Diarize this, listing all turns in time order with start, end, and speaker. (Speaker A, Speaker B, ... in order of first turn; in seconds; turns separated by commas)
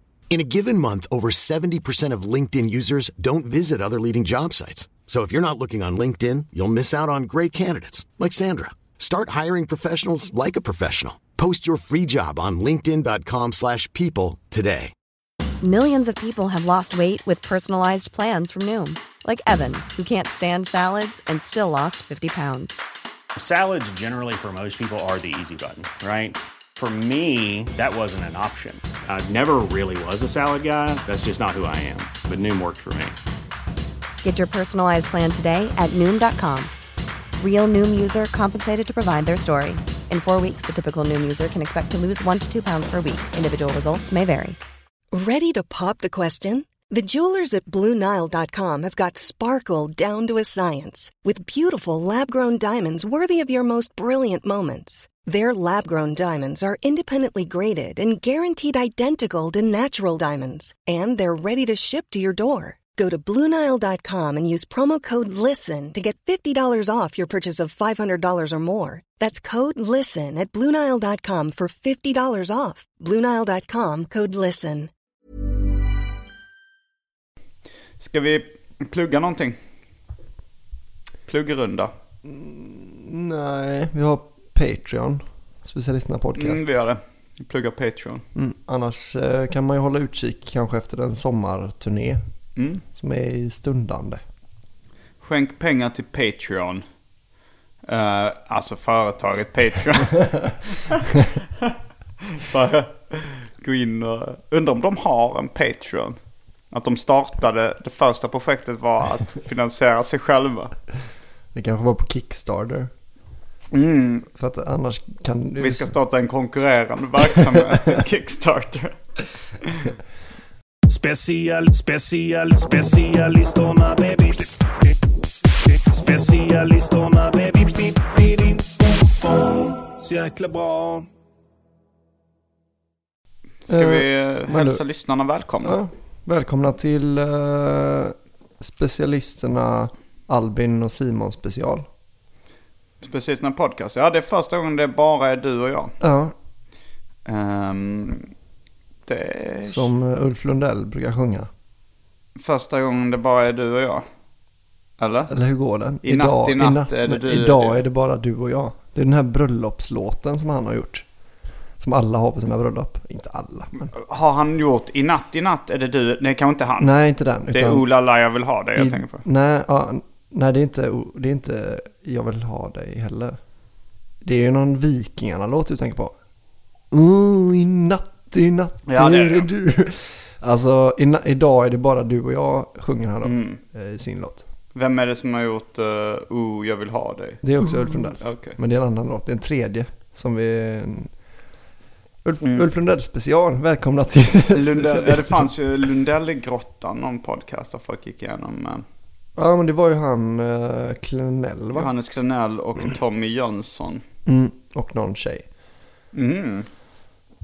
Speaker A: 0.3-14.9, Speaker B: 15.6-22.8, Speaker C: 23.4-33.1, Speaker B: 34.2-36.7, Speaker B: 37.4-44.6, Speaker D: 45.1-74.9, Speaker E: 78.0-79.6, Speaker E: 81.3-81.9, Speaker F: 82.2-86.7, Speaker E: 86.4-88.2, Speaker F: 88.3-92.2, Speaker E: 92.5-92.8, Speaker F: 92.9-94.2, Speaker E: 95.2-96.8, Speaker E: 97.8-100.2, Speaker E: 102.3-106.2, Speaker E: 106.7-110.7, Speaker F: 111.5-112.9, Speaker E: 113.7-114.3, Speaker F: 114.3-115.9, Speaker E: 115.6-119.0, Speaker E: 119.6-119.9, Speaker G: 120.9-124.6, Speaker G: 125.9-131.1, Speaker E: 133.7-135.8, Speaker F: 133.7-134.8, Speaker F: 135.6-141.9, Speaker E: 143.0-145.9, Speaker F: 146.0-146.3, Speaker E: 147.2-148.3, Speaker E: 149.1-149.9, Speaker F: 149.7-151.5, Speaker E: 152.4-154.0, Speaker E: 155.0-155.3, Speaker F: 155.3-161.1, Speaker E: 156.0-157.8, Speaker F: 161.8-163.9, Speaker E: 163.9-166.9, Speaker F: 166.8-167.8, Speaker E: 167.5-169.2, Speaker F: 168.7-173.4, Speaker F: 174.2-176.1, Speaker F: 176.9-184.4, Speaker E: 178.9-179.5, Speaker E: 183.2-183.6, Speaker E: 184.7-188.6, Speaker F: 187.4-191.1, Speaker F: 192.2-195.5, Speaker E: 192.4-192.7, Speaker E: 194.5-198.8, Speaker F: 199.4-201.9, Speaker E: 201.7-204.0, Speaker F: 204.2-205.4, Speaker E: 206.1-206.7